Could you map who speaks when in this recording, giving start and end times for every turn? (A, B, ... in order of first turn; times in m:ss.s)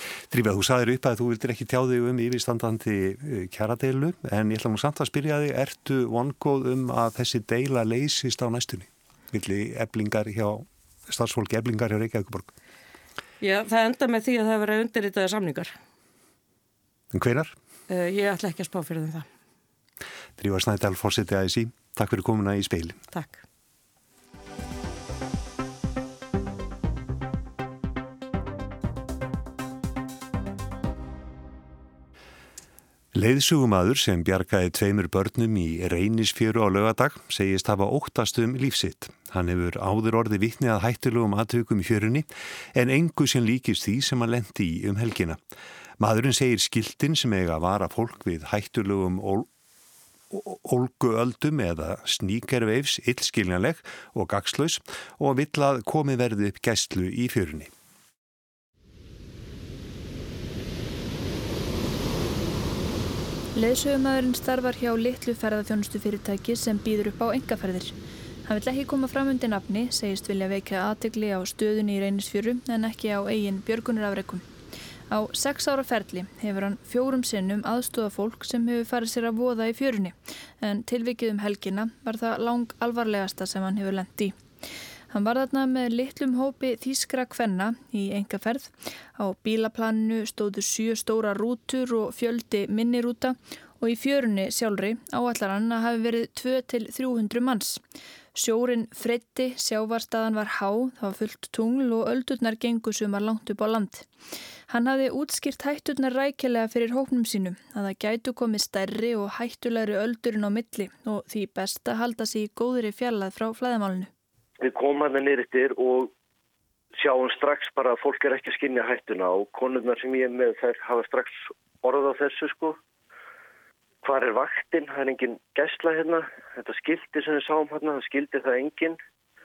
0:00.3-0:12.5 A
0:13.4-0:15.7 B
0:17.1-0:17.6 A
0:17.9-0:19.3 B
0:20.4-0:23.0 A
0:23.1-0:23.4 B
0:33.1-0:45.4 A
0:46.0-0:49.5 A
0:50.3-0:57.7 A
1:03.6-1:14.5 C
1:15.1-1:24.4 C
1:25.1-1:37.8 C
1:38.4-1:44.1 C
1:44.7-1:54.1 C
1:54.6-1:56.1 D
1:57.0-2:02.8 D
2:04.0-2:09.0 D